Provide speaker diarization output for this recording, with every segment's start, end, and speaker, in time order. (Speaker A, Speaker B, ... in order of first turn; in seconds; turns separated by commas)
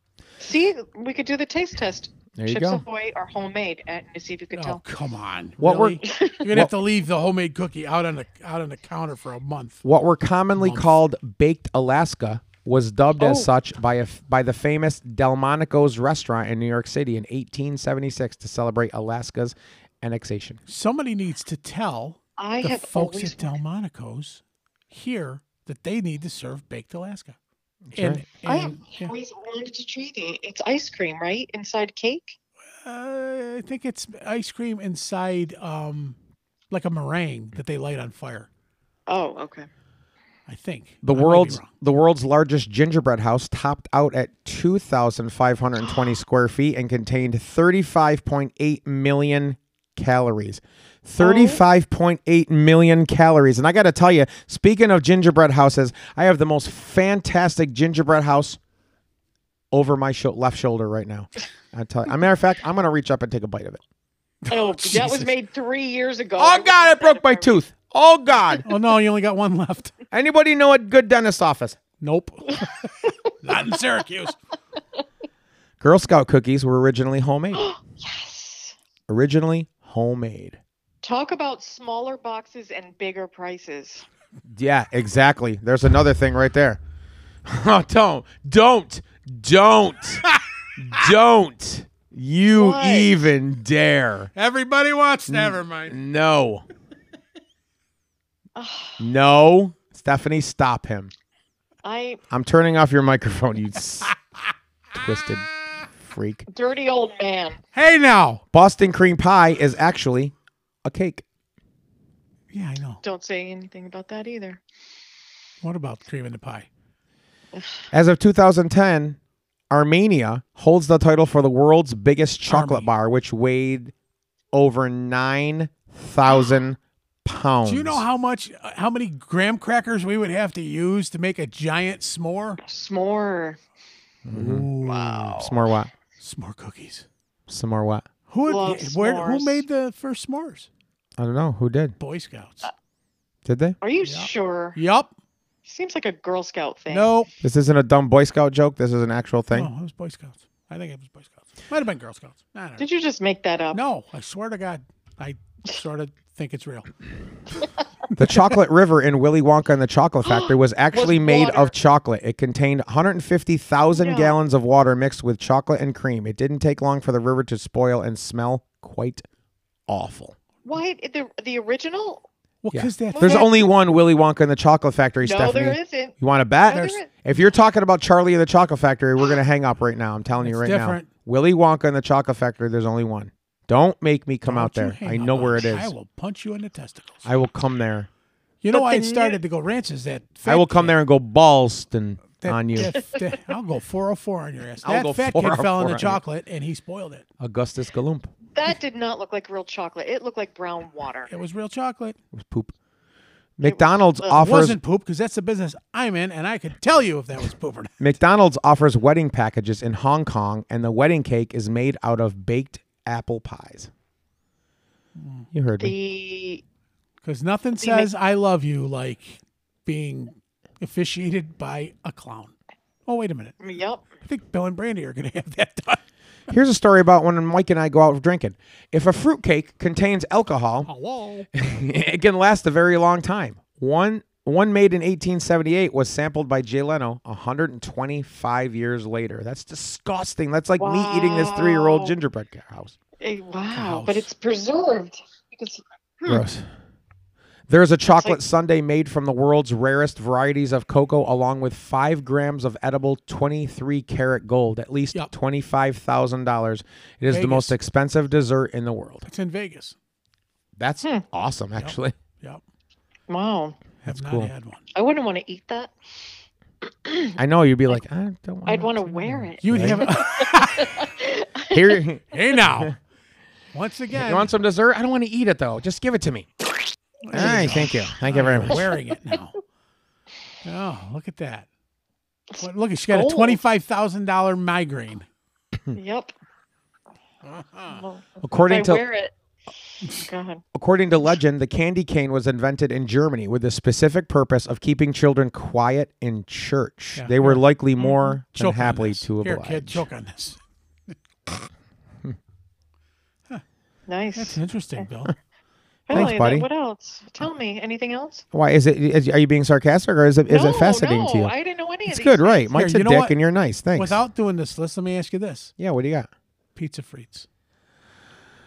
Speaker A: 0.4-4.8, Speaker B: 2.4-2.8, Speaker C: 4.5-9.8, Speaker B: 5.6-6.7, Speaker A: 6.0-6.5, Speaker B: 9.8-20.6, Speaker C: 10.6-10.9, Speaker A: 13.2-13.5, Speaker C: 20.7-27.4, Speaker A: 22.4-23.5, Speaker B: 27.9-28.2, Speaker C: 27.9-29.1, Speaker A: 28.4-32.4, Speaker C: 32.8-36.2, Speaker C: 36.7-38.5, Speaker A: 39.1-39.7, Speaker C: 40.5-41.7, Speaker B: 41.0-58.6, Speaker A: 51.2-51.6, Speaker B: 59.7-63.8, Speaker C: 64.4-65.3, Speaker A: 64.5-67.6, Speaker B: 66.4-68.7, Speaker C: 68.7-69.9, Speaker B: 70.1-71.8, Speaker C: 72.0-74.4, Speaker A: 73.1-73.3, Speaker B: 75.8-77.7, Speaker A: 77.5-78.8, Speaker B: 79.1-80.6, Speaker A: 81.0-84.1, Speaker B: 84.5-86.8, Speaker B: 87.5-94.3, Speaker A: 92.5-93.3, Speaker C: 94.3-96.0, Speaker B: 95.3-96.7, Speaker A: 98.6-99.0, Speaker B: 99.0-101.1, Speaker A: 101.8-102.2, Speaker B: 102.3-104.1, Speaker B: 105.0-105.5, Speaker B: 106.0-106.5, Speaker A: 106.5-107.6, Speaker C: 107.7-108.4, Speaker B: 108.5-111.2, Speaker C: 112.5-113.0, Speaker A: 113.0-114.6, Speaker C: 115.6-116.7, Speaker A: 117.5-117.8, Speaker B: 117.9-119.2, Speaker B: 119.7-123.9, Speaker C: 122.5-122.9, Speaker B: 124.5-128.0, Speaker C: 127.7-132.6, Speaker A: 132.6-133.6, Speaker B: 134.2-134.7, Speaker C: 134.3-135.5, Speaker A: 134.8-135.6, Speaker B: 135.4-135.9, Speaker C: 136.2-137.1, Speaker B: 137.5-138.1, Speaker C: 138.3-140.7, Speaker A: 138.5-139.7, Speaker B: 141.2-142.0, Speaker C: 142.0-142.7, Speaker B: 143.4-143.8, Speaker A: 143.8-144.8, Speaker C: 144.0-145.1, Speaker A: 145.7-147.1, Speaker C: 146.9-147.3, Speaker B: 147.4-149.7, Speaker C: 149.5-152.9, Speaker A: 152.8-153.8, Speaker C: 153.7-156.9, Speaker B: 158.2-169.2, Speaker A: 160.2-161.7, Speaker A: 163.9-164.4, Speaker B: 169.9-170.3, Speaker A: 170.7-172.3, Speaker C: 172.6-173.5, Speaker B: 172.7-185.9, Speaker A: 173.1-173.7, Speaker A: 175.2-177.1, Speaker C: 176.7-177.0, Speaker C: 180.4-181.1, Speaker C: 184.4-187.4, Speaker B: 187.2-188.1, Speaker C: 188.6-190.9, Speaker A: 188.7-189.4, Speaker B: 190.5-192.9, Speaker C: 192.4-197.3, Speaker B: 194.8-196.2, Speaker B: 197.4-198.3, Speaker A: 198.5-201.3, Speaker C: 201.3-202.2, Speaker B: 202.3-202.7, Speaker B: 203.6-204.8, Speaker A: 203.6-204.4, Speaker C: 204.3-208.1, Speaker B: 208.0-213.9, Speaker C: 215.2-215.5, Speaker B: 215.5-216.0, Speaker A: 215.8-216.6, Speaker C: 217.2-222.5, Speaker A: 217.8-218.1, Speaker C: 223.1-223.6, Speaker A: 223.6-224.1, Speaker C: 224.2-226.0, Speaker B: 226.5-230.9, Speaker C: 230.8-231.5, Speaker B: 231.5-242.9, Speaker A: 240.8-242.2, Speaker A: 243.2-246.4, Speaker C: 243.7-244.3, Speaker B: 246.3-246.7, Speaker B: 247.7-259.3, Speaker A: 248.1-248.4, Speaker C: 257.3-257.8, Speaker C: 259.3-260.0, Speaker B: 260.8-262.1, Speaker C: 261.8-262.6, Speaker A: 263.3-263.8, Speaker C: 264.0-264.8, Speaker B: 264.1-264.5, Speaker A: 264.9-265.9, Speaker A: 267.1-267.4, Speaker B: 267.4-270.1, Speaker A: 268.7-272.0, Speaker C: 269.6-271.0, Speaker B: 271.7-272.9, Speaker C: 272.3-273.0, Speaker C: 273.7-274.5, Speaker B: 274.1-276.5, Speaker C: 277.2-279.6, Speaker A: 277.3-277.9, Speaker B: 277.3-278.9, Speaker A: 278.7-278.9, Speaker C: 280.6-281.7, Speaker A: 282.5-283.6, Speaker C: 282.6-285.2, Speaker A: 285.9-286.3, Speaker C: 287.4-288.0, Speaker A: 287.9-289.3, Speaker B: 288.4-289.0, Speaker C: 290.0-290.3, Speaker A: 290.1-290.6, Speaker B: 290.7-300.1, Speaker C: 297.2-300.6, Speaker A: 304.1-304.6, Speaker C: 304.4-305.3, Speaker A: 306.1-308.4, Speaker B: 306.1-306.7, Speaker B: 308.5-311.5, Speaker A: 310.5-312.7, Speaker B: 312.1-314.2, Speaker C: 312.7-313.4, Speaker C: 313.9-315.7, Speaker B: 315.8-316.3, Speaker C: 316.8-317.5